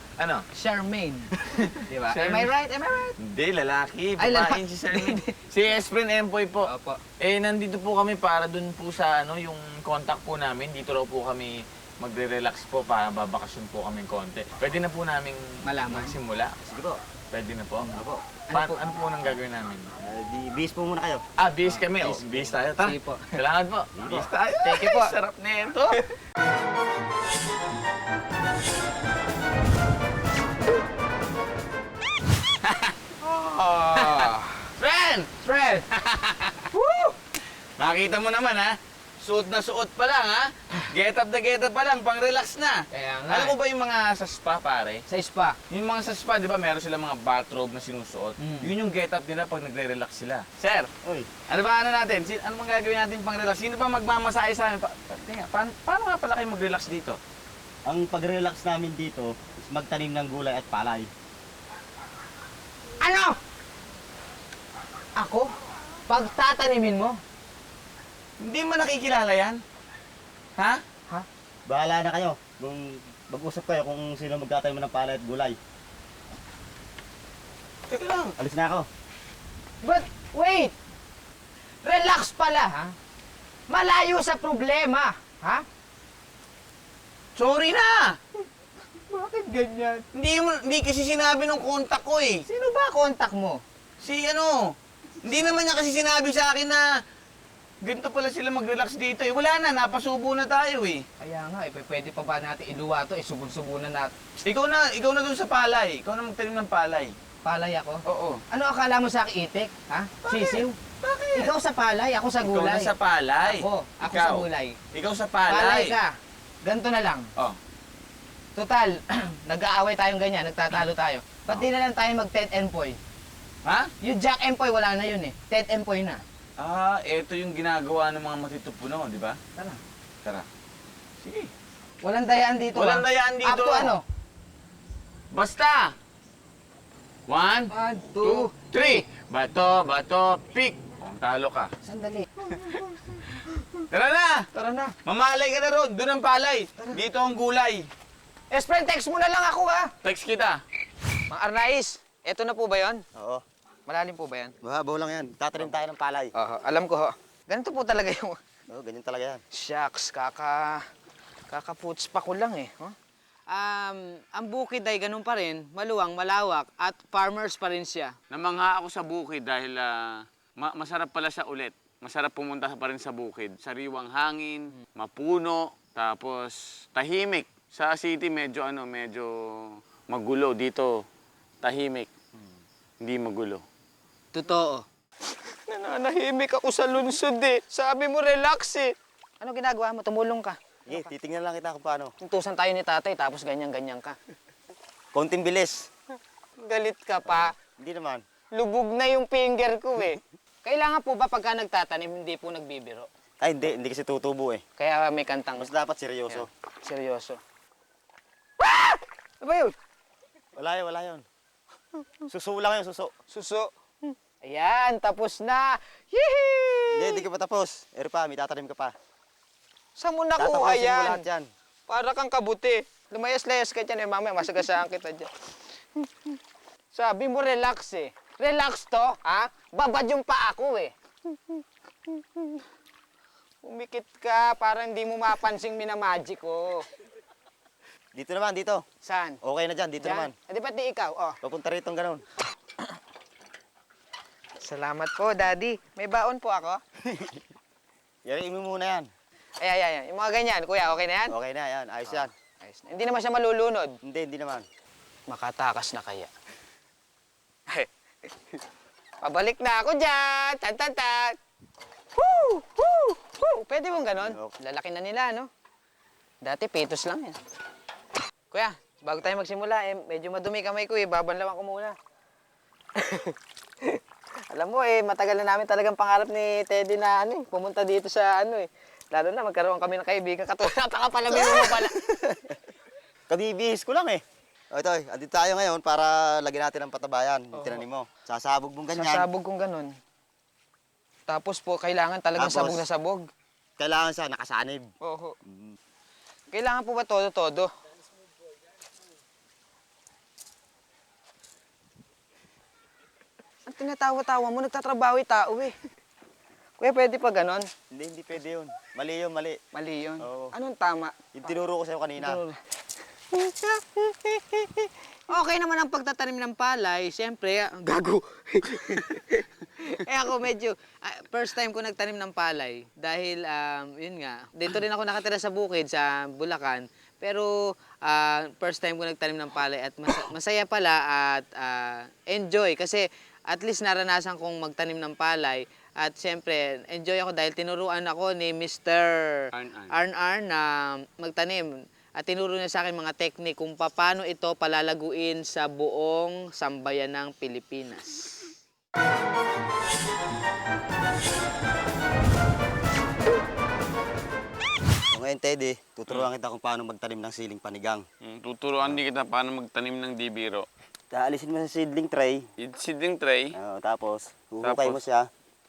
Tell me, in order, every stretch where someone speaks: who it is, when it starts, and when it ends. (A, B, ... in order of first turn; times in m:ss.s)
0:00.2-0:00.4 A
0:00.6-0:01.3 B
0:01.4-0:02.5 A
0:01.9-0:03.2 B
0:03.2-0:06.7 A
0:04.2-0:05.4 B
0:06.7-0:07.0 B
0:07.2-0:16.5 A
0:15.6-0:16.2 B
0:16.6-0:17.0 C
0:17.3-0:17.9 A
0:17.9-0:18.2 C
0:18.5-0:18.8 B
0:18.5-0:19.9 A
0:20.0-0:21.2 C
0:21.4-0:26.0 A
0:21.7-0:23.3 B
0:24.0-0:24.3 C
0:24.5-0:25.1 B
0:32.6-0:35.3 A
0:33.9-0:34.5 B
0:35.4-0:35.9 B
0:35.9-0:36.7 A
0:36.7-0:37.1 B
0:37.8-0:45.0 A
0:42.9-0:43.6 B
0:45.1-0:45.6 B
0:45.7-0:50.9 A
0:48.4-0:48.7 B
0:51.5-0:57.2 A
0:57.9-1:01.1 C
1:03.0-1:03.4 B
1:05.2-1:05.5 B
1:06.1-1:07.2 B
1:08.4-1:09.6 A
1:10.6-1:10.8 A
1:11.7-1:15.6 C
1:17.9-1:18.4 A
1:18.4-1:18.9 C
1:19.8-1:20.8 B
1:21.8-1:22.9 B
1:23.7-1:25.6 B
1:27.4-1:28.2 A
1:29.1-1:30.0 B
1:30.1-1:32.4 A
1:32.5-1:33.6 B
1:34.0-1:36.9 A
1:37.8-1:41.0 A
1:41.2-1:44.1 B
1:44.4-1:47.2 A
1:47.4-1:50.8 B
1:48.1-1:48.4 A
1:50.2-1:51.5 A
1:51.3-1:54.8 B
1:52.4-1:56.0 A
1:55.5-1:56.1 B
1:56.6-1:57.3 B
1:58.6-2:03.0 B
2:03.6-2:03.9 A
2:04.0-2:06.2 B
2:06.6-2:09.4 A
2:11.2-2:11.5 A
2:12.0-2:14.0 B
2:12.8-2:14.0 A
2:15.3-2:15.9 A
2:17.3-2:17.7 A
2:17.7-2:18.5 B
2:18.2-2:21.7 A
2:21.9-2:22.8 B
2:23.9-2:24.5 A
2:24.5-2:24.9 B
2:25.1-2:27.9 A
2:28.5-2:29.9 B
2:30.0-2:30.6 A
2:31.3-2:33.0 B
2:33.2-2:33.4 C
2:33.9-2:34.5 B
2:34.6-2:36.3 C
2:36.4-2:38.4 B
2:38.7-2:39.4 C
2:39.5-2:40.8 B
2:41.5-2:42.9 B
2:43.5-2:48.1 B
2:48.3-3:01.0 A
3:01.6-3:02.1 A
3:03.0-3:03.6 A
3:04.3-3:04.9 B
3:05.4-3:10.6 B
3:10.9-3:12.1 C
3:12.2-3:14.2 B
3:15.1-3:15.9 C
3:16.6-3:17.5 B
3:17.2-3:18.2 C
3:18.5-3:23.1 B
3:23.4-3:24.6 C
3:24.8-3:25.7 B
3:25.6-3:26.5 C
3:26.3-3:27.4 B
3:28.6-3:29.8 B
3:30.6-3:31.2 C
3:32.3-3:33.1 C
3:33.3-3:37.2 B
3:36.9-3:38.9 C
3:40.0-3:41.2 B
3:40.4-3:41.5 C
3:41.9-3:45.3 B
3:46.9-3:50.9 B
3:52.1-3:52.5 B
3:53.6-3:56.8 B
3:58.1-3:58.8 C
3:59.0-3:59.4 B
3:59.4-4:00.3 C
4:00.0-4:01.4 B
4:01.4-4:02.2 C
4:04.6-4:06.8 B
4:07.0-4:07.4 C
4:08.2-4:09.1 C
4:09.6-4:11.4 B
4:11.3-4:12.3 C
4:12.1-4:14.0 B
4:14.0-4:14.7 C
4:15.3-4:16.3 B
4:19.2-4:21.4 B
4:22.2-4:25.5 B
4:24.2-4:24.5 C
4:26.4-4:27.4 B
4:28.5-4:32.0 B
4:33.0-4:42.0 B
4:41.3-4:42.6 C
4:43.3-4:49.3 C
4:47.5-4:47.8 B
4:48.9-4:49.9 B
4:51.3-4:53.3 B
4:52.4-4:52.8 C
4:53.8-4:54.9 C
4:55.0-4:55.4 B
4:55.5-4:55.8 C
4:56.5-4:57.7 B
5:03.7-5:05.7 B
5:06.8-5:07.7 B
5:07.9-5:09.6 C
5:09.7-5:11.6 B
5:10.2-5:10.5 C
5:11.3-5:12.4 C
5:12.2-5:12.6 B
5:13.3-5:27.5 B
5:28.0-5:39.4 B
5:39.5-5:40.0 A
5:39.9-5:48.4 B
5:55.1-5:58.0 C
5:58.2-6:00.7 A
6:01.1-6:02.5 C
6:02.6-6:03.6 A
6:03.5-6:05.3 C
6:04.6-6:05.0 A